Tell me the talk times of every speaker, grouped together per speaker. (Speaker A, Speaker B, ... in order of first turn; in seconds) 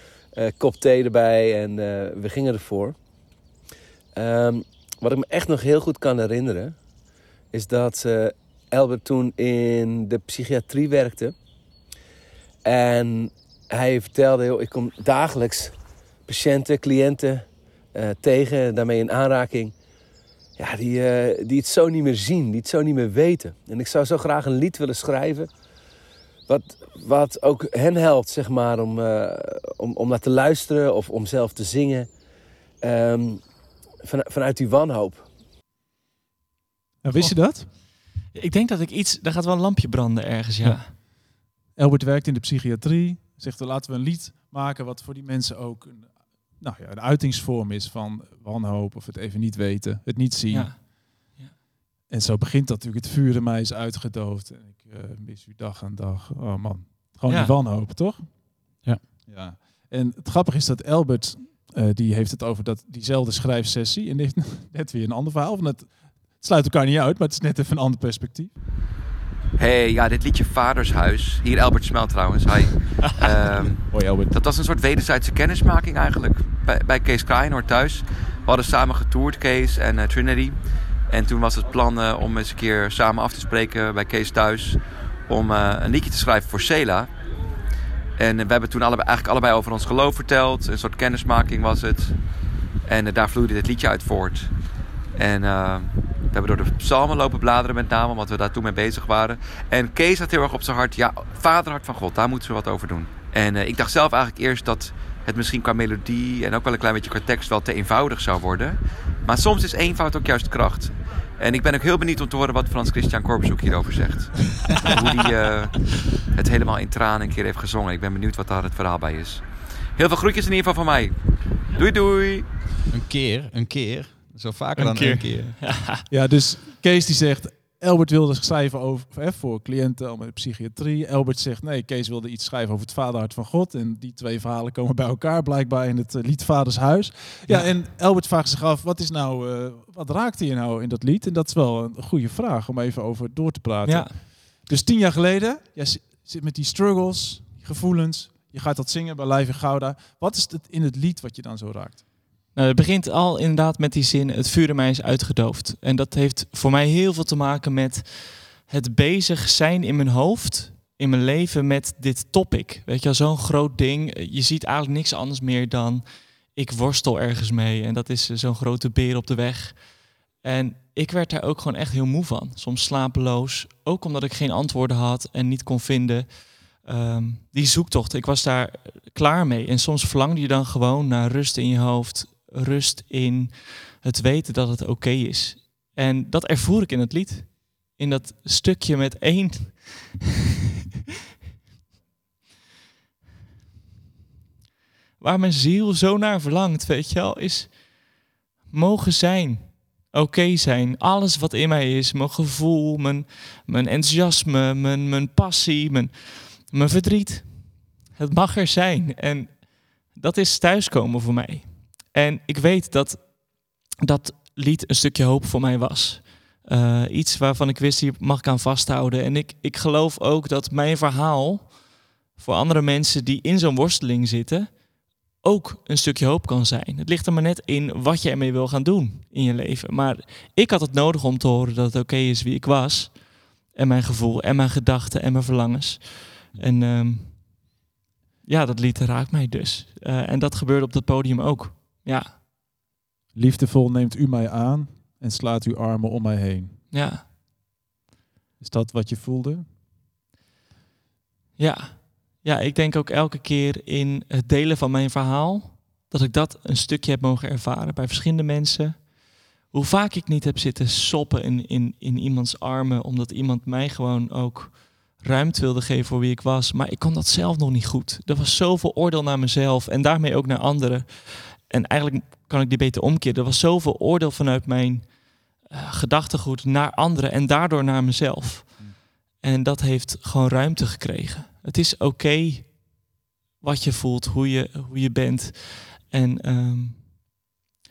Speaker A: 0.3-2.9, 4.2-6.7, 7.5-11.3, 12.6-15.7, 16.3-17.4, 17.9-19.7, 20.6-25.5, 26.5-32.1, 32.8-33.4, 34.0-35.3
Speaker B: 37.0-37.7, 40.6-50.9, 52.1-68.6, 73.9-74.3, 126.1-152.0, 243.3-246.8, 248.6-249.7
Speaker C: 37.1-40.9, 50.5-51.5, 57.3-57.5, 124.8-126.0, 137.5-137.8, 143.8-144.1, 152.5-190.2, 195.2-198.1, 198.7-221.8, 222.3-237.6, 238.4-242.4, 246.9-247.2, 251.6-283.1, 283.6-287.5
Speaker D: 69.6-80.6, 81.1-87.1, 88.2-92.2, 92.8-94.5, 95.2-121.2, 121.7-122.5
Speaker E: 122.9-125.7